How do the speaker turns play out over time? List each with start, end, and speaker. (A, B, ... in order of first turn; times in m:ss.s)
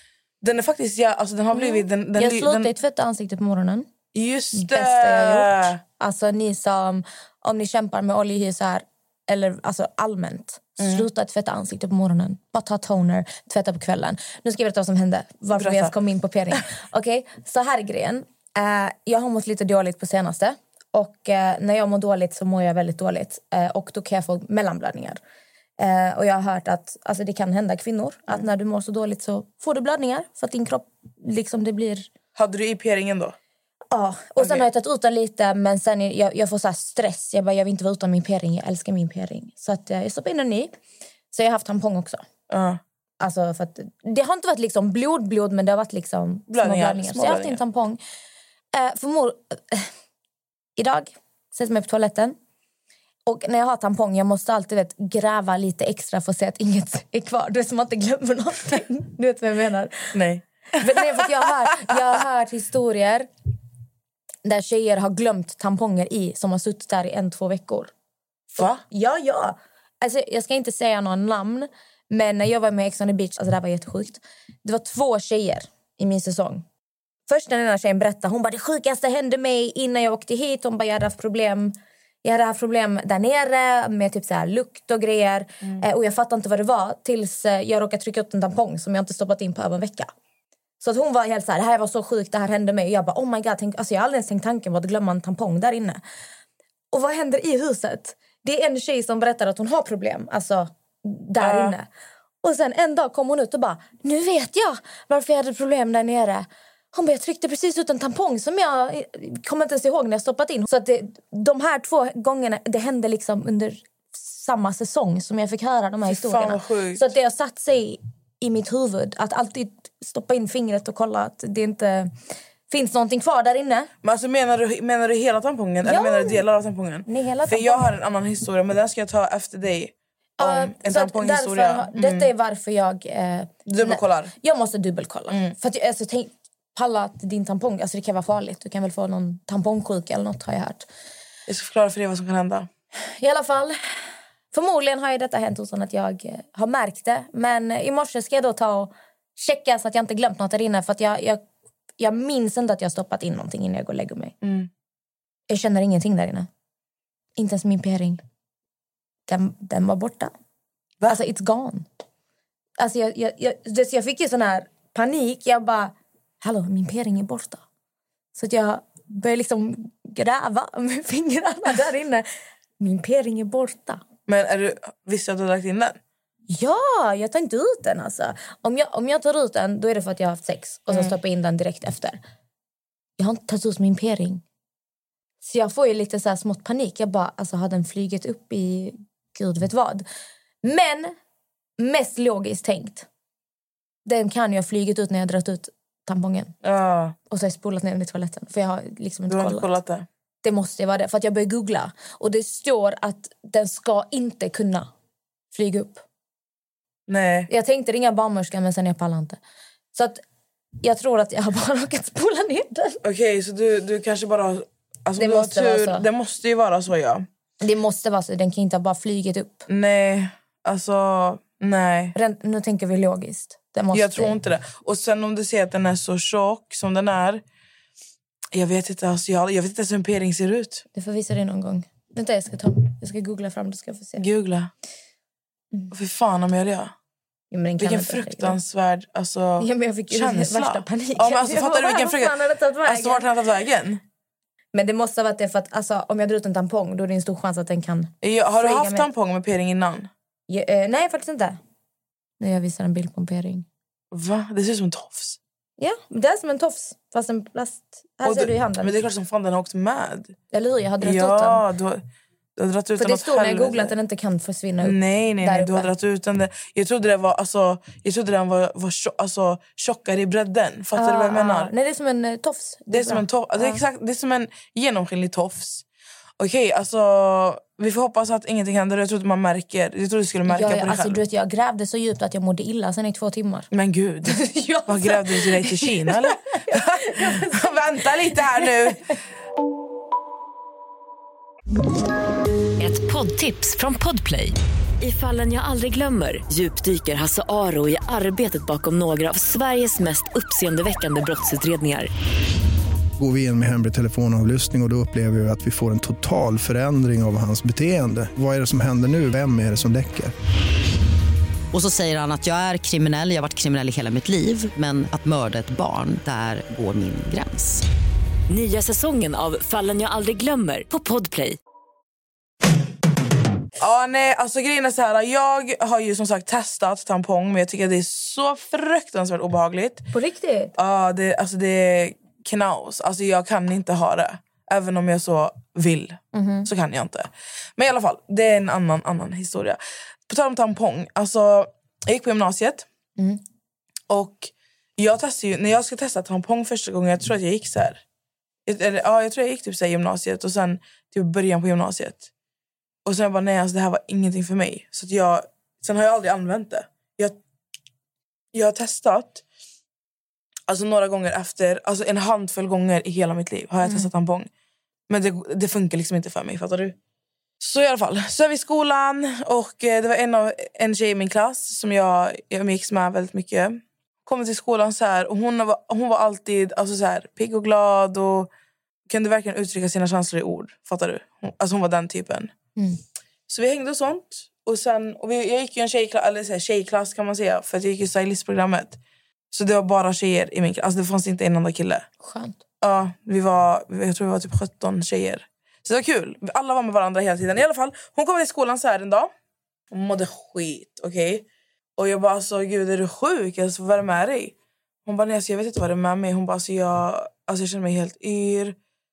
0:00.4-0:02.7 A
0:01.5-0:03.9 B
0:04.1-0:05.8 A
0:04.5-0:25.2 B
0:10.8-0:11.1 A
0:15.6-0:15.9 A
0:25.8-0:32.1 B
0:32.4-0:33.4 A
0:33.9-0:40.7 B
0:34.4-0:34.6 A
0:41.3-0:42.2 B
0:42.5-0:42.8 A
0:43.2-0:48.0 B
0:46.5-0:47.6 A
0:48.7-0:49.9 B
0:50.8-0:52.4 B
0:53.3-1:00.2 B
1:00.1-1:01.1 A
1:00.8-1:03.3 B
1:04.4-1:07.9 B
1:08.6-1:08.8 A
1:08.6-1:16.6 B
1:17.3-1:30.1 B
1:30.8-1:36.0 B
1:36.9-1:41.9 B
1:41.4-1:41.8 A
1:42.4-2:02.1 B
1:56.1-1:57.0 A
2:02.7-2:03.9 B
2:04.0-2:12.3 A
2:05.8-2:06.4 B
2:07.1-2:07.9 B
2:10.4-2:20.9 B
2:13.7-2:14.3 A
2:15.3-2:15.6 A
2:21.5-2:22.7 A
2:23.1-2:31.4 B
2:32.0-2:34.3 B
2:34.4-2:34.7 A
2:35.5-2:36.5 B
2:37.4-2:38.2 B
2:39.3-2:40.3 B
2:41.1-2:41.9 B
2:42.8-2:47.6 B
2:48.4-2:52.3 B
2:52.8-2:54.0 B
2:54.3-2:56.0 A
2:56.5-3:02.2 B
3:00.9-3:01.2 A
3:03.2-3:04.4 B
3:05.4-3:10.0 B
3:10.6-3:11.1 B
3:11.8-3:13.1 B
3:14.0-3:16.5 B
3:16.6-3:17.2 A
3:17.3-3:19.7 B
3:19.3-3:20.1 A
3:20.4-3:24.9 B
3:25.5-3:26.0 B
3:27.1-3:27.5 A
3:27.5-3:29.4 B
3:30.0-3:30.2 B
3:30.8-3:33.0 B
3:33.0-3:37.3 A
3:35.2-3:36.1 B
3:37.6-3:39.7 B
3:39.7-3:42.2 A
3:42.2-3:44.4 B
3:43.9-3:47.4 A
3:48.5-3:50.8 A
3:50.9-3:54.2 B
3:54.2-3:54.7 A
3:55.9-3:56.9 A
3:57.5-3:58.6 B
3:57.8-4:04.0 A
3:59.6-4:03.3 B
4:04.7-4:09.1 B
4:08.2-4:10.1 A
4:10.5-4:11.6 B
4:12.4-4:13.6 B
4:14.1-4:15.4 A
4:15.8-4:18.9 B
4:18.2-4:20.4 A
4:20.5-4:21.6 B
4:21.0-4:22.0 A
4:22.6-4:23.9 A
4:23.0-4:25.9 B
4:24.8-4:31.7 A
4:31.0-4:33.8 B
4:32.9-4:35.8 A
4:36.4-4:41.2 A
4:40.5-4:43.7 B
4:43.7-4:49.1 A
4:44.3-4:49.2 B
4:52.8-5:02.1 C
5:03.2-5:10.3 D
5:11.7-5:17.8 E
5:18.5-5:21.6 C
5:23.8-5:30.0 A
5:30.1-5:30.7 B
5:30.8-5:42.9 A
5:36.3-5:36.7 B
5:44.1-5:48.0 A
5:48.7-5:52.2 A
5:53.0-5:57.4 A
5:58.5-5:59.4 A
6:00.7-6:04.5 A
6:03.8-6:04.1 B
6:05.1-6:07.0 A
6:07.6-6:18.5 A
6:19.1-6:22.5 A
6:23.5-6:29.0 A
6:29.5-6:32.1 A
6:32.2-6:32.6 B
6:32.8-6:39.3 A
6:39.9-6:41.4 A
6:42.0-6:44.5 A
6:45.1-6:48.8 A